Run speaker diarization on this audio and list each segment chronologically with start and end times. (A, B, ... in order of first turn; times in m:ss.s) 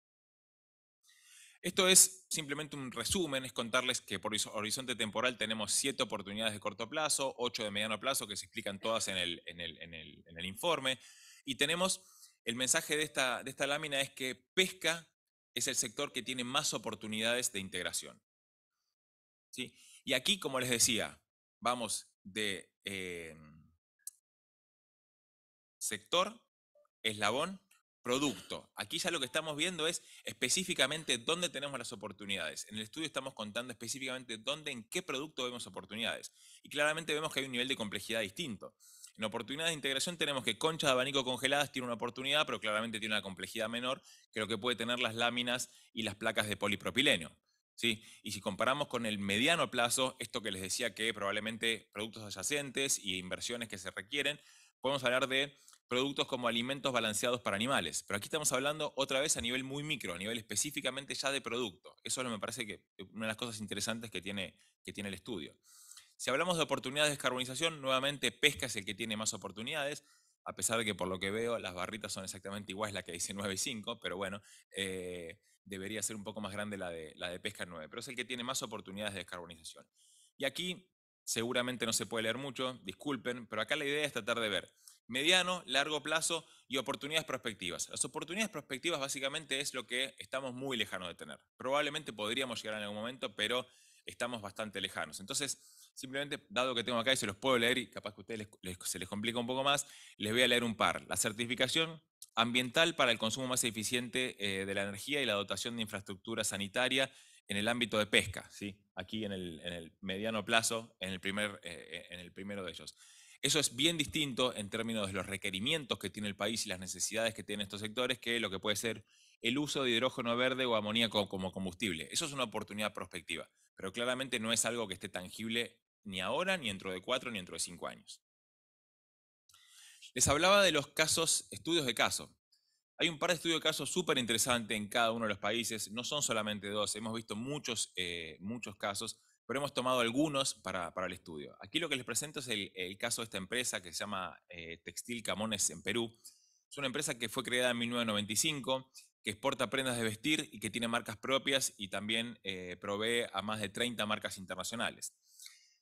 0:01.6-0:18.2 A
0:19.5-0:23.6 A
0:25.8-0:26.4 A
0:27.0-1:05.6 A
1:06.2-1:19.9 A
1:20.4-2:08.2 A
2:10.1-2:12.3 A
2:13.0-2:26.2 A
2:26.7-2:35.1 A